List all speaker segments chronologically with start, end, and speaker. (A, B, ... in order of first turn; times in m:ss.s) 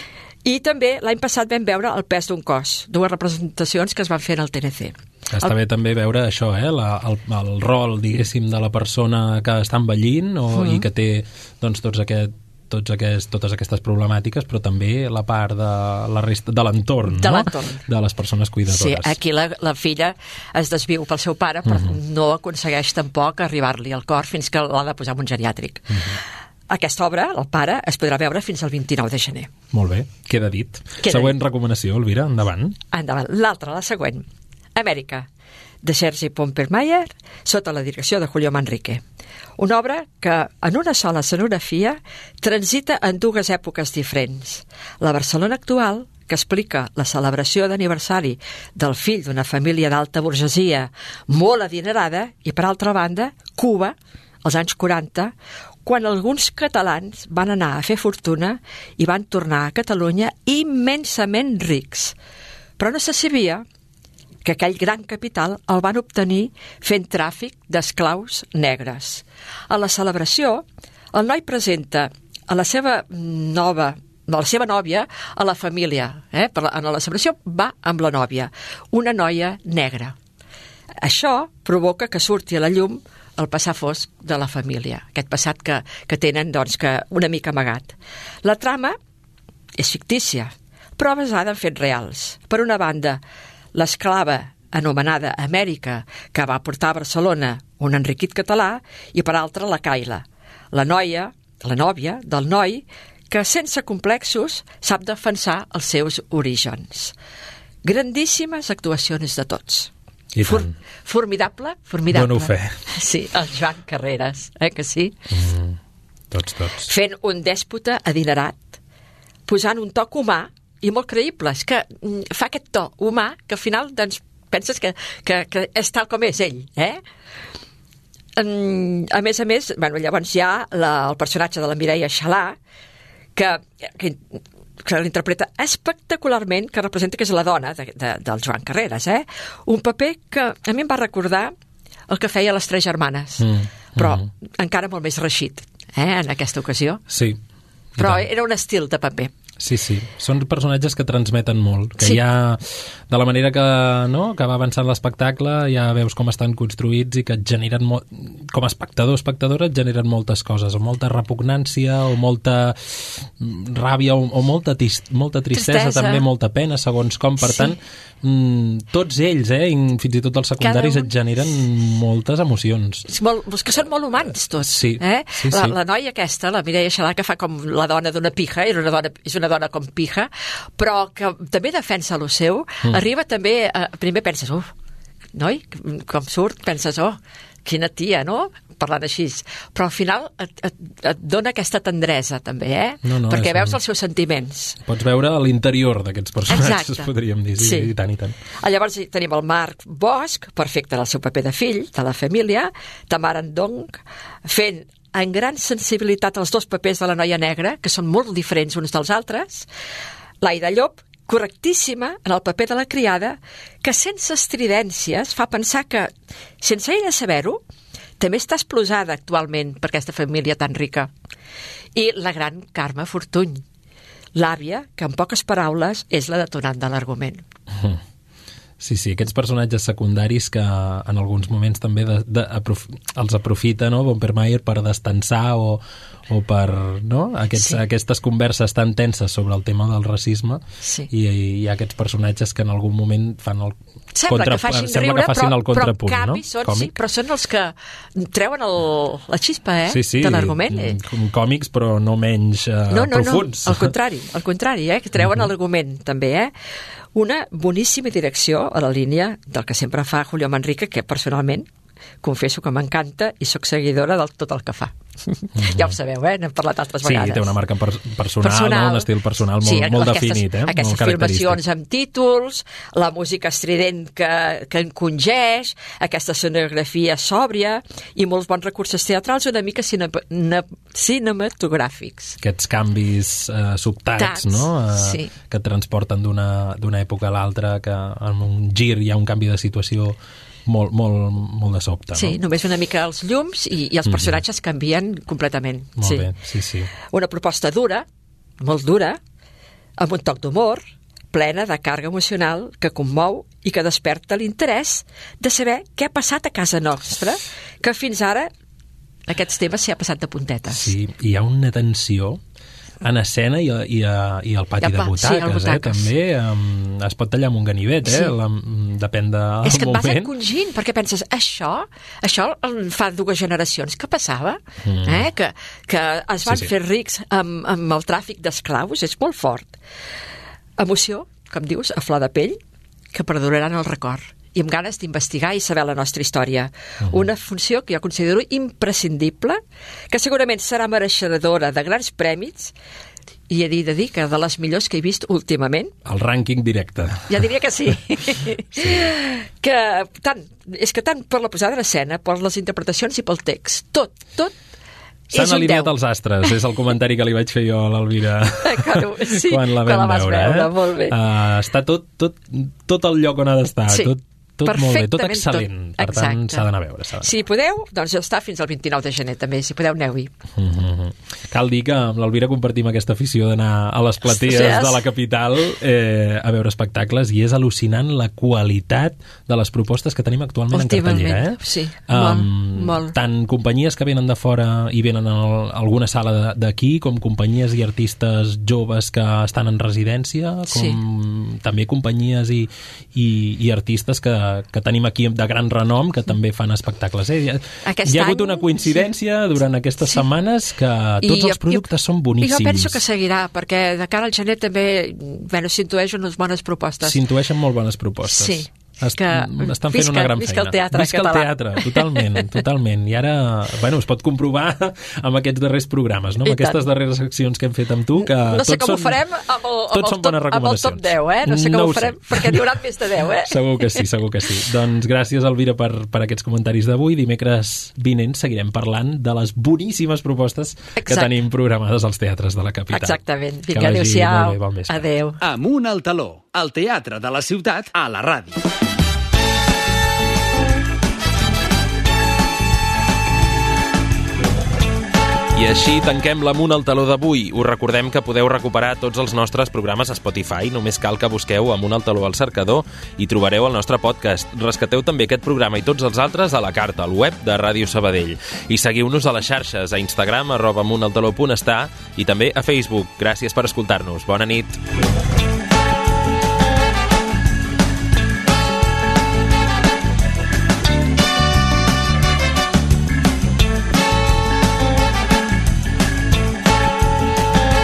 0:00.4-0:05.5 A
0:05.3-0:19.2 B
0:10.5-0:10.9 A
0:17.1-0:17.8 A
0:18.7-0:26.2 A
0:21.7-0:22.0 B
0:25.9-0:26.2 B
0:26.7-0:29.5 A
0:29.7-0:32.8 B
0:31.0-0:31.4 A
0:32.9-0:34.2 A
0:34.8-0:35.3 A
0:35.8-0:39.0 A
0:39.6-0:55.3 A
0:55.8-1:02.2 A
1:02.8-1:03.6 A
1:04.4-1:20.2 A
1:21.0-1:29.0 A
1:29.8-1:33.2 A
1:33.8-1:47.1 A
1:47.8-1:55.2 A
1:50.4-1:50.7 B
1:52.1-1:52.8 B
1:55.3-1:55.8 B
1:56.3-1:56.9 B
1:56.8-1:58.8 A
1:59.5-2:07.0 A
2:08.4-2:12.6 A
2:13.4-2:21.5 A
2:22.1-2:27.0 A
2:23.4-2:24.3 B
2:27.1-2:27.4 B
2:28.0-2:28.3 B
2:28.0-2:29.3 A
2:29.6-2:53.1 B
2:45.5-2:46.2 A
2:47.4-2:47.8 A
2:50.6-2:51.1 A
2:53.1-3:04.7 A
2:54.6-2:55.8 B
3:05.3-3:14.8 A
3:13.0-3:13.8 B
3:14.8-3:18.4 B
3:16.5-3:17.9 A
3:18.5-3:29.7 A
3:30.4-3:37.6 A
3:38.2-3:41.1 A
3:42.0-3:43.6 A
3:44.4-3:47.4 A
3:47.7-3:48.0 B
3:48.8-4:03.8 B
4:00.8-4:01.1 A
4:04.2-4:11.0 A
4:04.3-4:06.9 B
4:09.9-4:13.9 B
4:12.9-4:16.5 A
4:15.2-4:15.5 B
4:17.2-4:21.7 A
4:22.2-4:27.5 A
4:25.6-4:26.0 B
4:27.0-4:31.6 B
4:28.4-4:29.1 A
4:29.6-4:42.4 A
4:42.4-4:52.4 B
4:44.2-4:45.3 A
4:52.1-4:56.3 A
4:54.0-4:54.4 B
4:56.0-4:56.9 B
4:57.0-4:58.0 A
4:58.6-4:59.2 A
5:00.0-5:00.8 A
5:01.3-5:08.5 A
5:09.3-5:10.9 A
5:10.7-5:12.4 B
5:13.0-5:20.3 B
5:14.8-5:16.1 A
5:18.1-5:18.3 A
5:19.6-5:29.8 A
5:24.8-5:25.3 B
5:26.5-5:26.7 B
5:30.8-5:32.6 A
5:33.1-5:39.6 A
5:40.1-5:42.7 A
5:43.5-5:45.9 A
5:46.1-5:47.4 B
5:47.3-5:54.5 A
5:48.8-5:49.1 B
5:55.3-5:55.9 A
5:55.3-6:07.4 B
5:58.6-6:01.2 A
6:03.9-6:06.7 A
6:07.2-6:10.3 A
6:10.6-6:43.0 B
6:14.2-6:15.0 A
6:20.7-6:23.2 A
6:30.7-6:31.0 A
6:37.9-6:39.1 A
6:41.2-6:41.8 A
6:42.4-6:47.2 A
6:47.0-6:59.2 B
6:48.3-6:52.6 A
6:56.4-6:56.8 A
6:58.2-7:04.0 A
6:59.9-7:02.8 B
7:03.4-7:15.1 B
7:11.0-7:11.3 A
7:12.9-7:15.4 A
7:15.4-7:18.6 C
7:25.6-7:44.8 B